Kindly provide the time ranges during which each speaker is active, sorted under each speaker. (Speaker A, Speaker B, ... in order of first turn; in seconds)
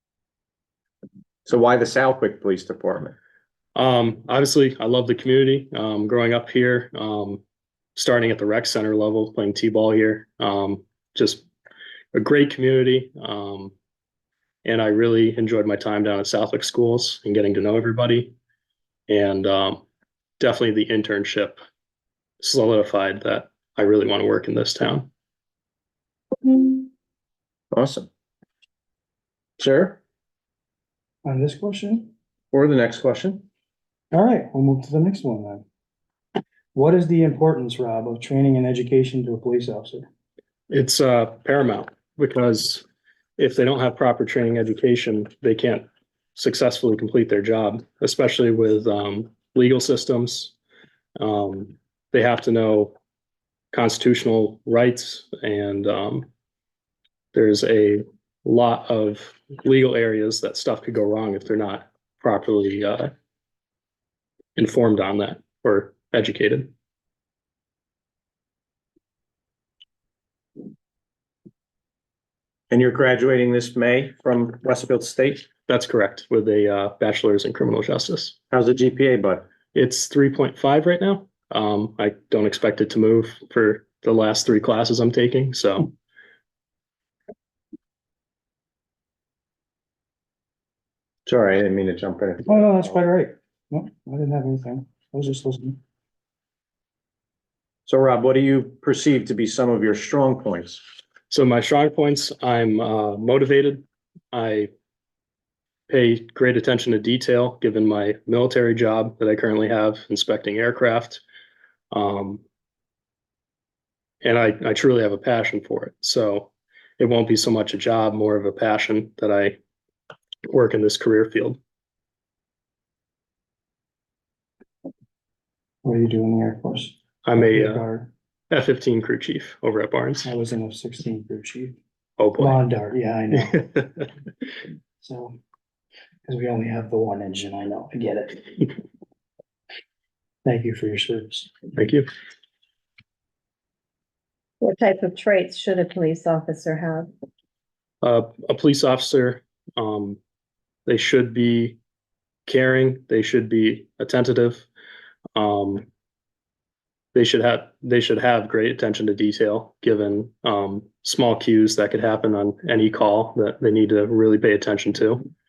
Speaker A: 1.4-3.1, 27.7-28.1, 29.6-30.0, 32.5-33.4, 72.7-75.5, 78.5-79.5, 91.2-92.5, 97.8-100.8
Speaker B: 3.7-7.4, 8.0-11.4, 12.1-13.7, 14.6-18.3, 19.1-19.8, 20.4-21.6, 22.4-25.1, 40.7-42.8, 43.4-50.5, 51.2-53.0, 53.7-56.3, 57.3-63.1, 64.5-66.7, 75.7-78.3, 79.7-85.9, 101.3-104.7, 105.9-111.2, 111.9-112.4, 114.2-119.6, 120.5-121.6, 127.2-127.8, 128.5-130.2, 132.2-132.6, 133.7-134.0, 141.8-142.1, 148.0-150.2, 150.8-151.8, 152.5-154.7, 155.3-155.9, 157.1-165.3
Speaker C: 31.2-32.1, 34.1-35.6, 36.7-40.0, 92.5-95.8, 125.8-128.1, 130.2-131.8, 132.4-133.7, 135.0-135.4, 136.2-138.7, 140.4-141.6
Speaker D: 144.6-147.1